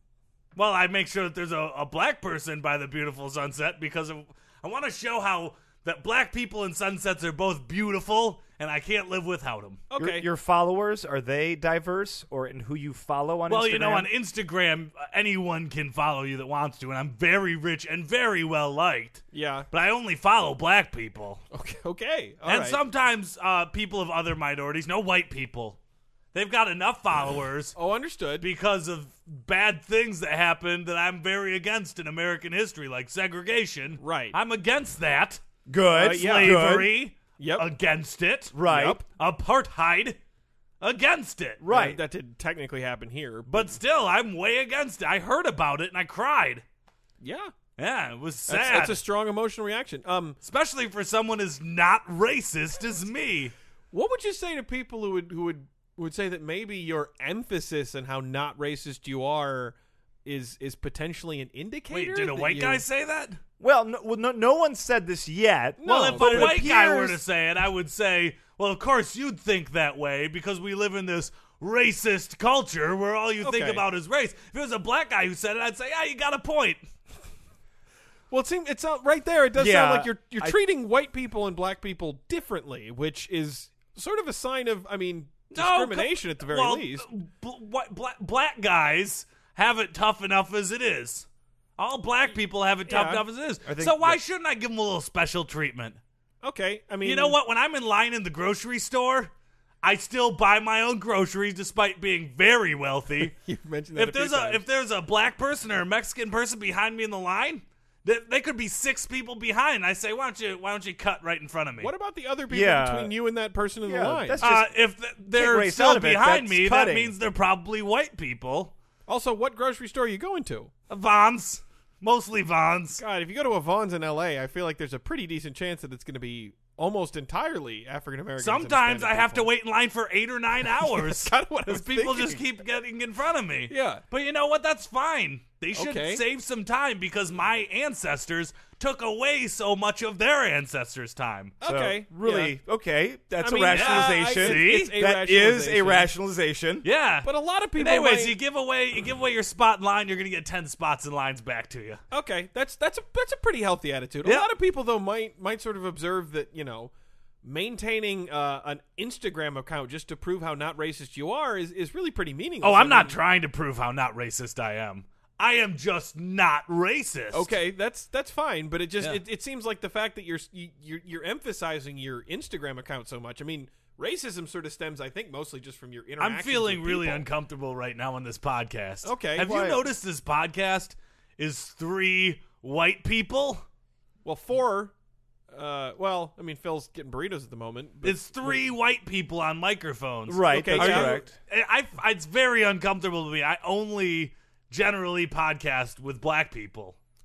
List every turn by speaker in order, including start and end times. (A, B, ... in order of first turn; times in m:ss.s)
0:00.6-0:09.8 A
0:09.9-0:10.3 B
0:10.0-0:14.1 C
0:13.5-0:21.4 A
0:19.3-0:19.7 B
0:21.5-0:22.8 B
0:22.4-0:25.8 A
0:26.3-0:27.8 A
0:27.8-0:28.5 B
0:28.4-0:35.4 A
0:34.0-0:34.4 B
0:35.7-0:36.9 C
0:35.9-0:36.8 B
0:36.0-0:38.6 A
0:37.4-0:37.7 B
0:38.5-0:39.0 C
0:38.7-0:39.0 B
0:39.1-0:40.2 A
0:40.8-0:41.6 A
0:41.6-0:42.0 C
0:41.7-0:43.8 B
0:43.5-0:46.6 A
0:47.2-0:47.5 B
0:47.8-0:49.0 A
0:48.5-0:50.4 B
0:50.4-0:53.5 A
0:53.9-1:02.8 B
1:01.9-1:03.4 A
1:03.6-1:07.2 C
1:05.8-1:06.6 B
1:05.8-1:16.8 A
1:13.4-1:13.8 B
1:18.3-1:27.1 B
1:19.6-1:20.6 C
1:25.5-1:36.0 A
1:32.9-1:33.2 B
1:33.6-1:34.2 C
1:36.4-1:37.4 B
1:37.0-1:39.3 A
1:39.8-1:43.3 A
1:43.2-1:44.6 B
1:44.0-1:51.9 A
1:51.8-1:54.4 B
1:52.5-1:53.1 C
1:53.8-1:54.7 C
1:54.4-1:58.7 A
1:55.3-1:57.1 C
1:59.1-2:00.7 B
2:00.9-2:03.0 A
2:03.0-2:09.5 B
2:08.4-2:21.6 A
2:10.7-2:12.4 B
2:13.7-2:14.0 B
2:15.8-2:16.2 B
2:21.6-2:22.6 B
2:21.6-2:26.9 C
2:23.4-2:26.1 B
2:23.7-2:24.9 A
2:26.8-2:32.0 A
2:27.2-2:28.4 B
2:32.1-2:36.9 B
2:34.2-2:34.5 A
2:37.4-2:43.2 B
2:42.6-2:47.6 A
2:47.3-2:57.3 B
2:56.2-3:03.6 A
2:59.0-2:59.7 B
2:59.4-2:59.8 C
3:04.2-3:04.9 B
3:05.5-3:08.6 B
3:08.0-3:17.0 A
3:10.3-3:11.3 C
3:10.5-3:11.2 B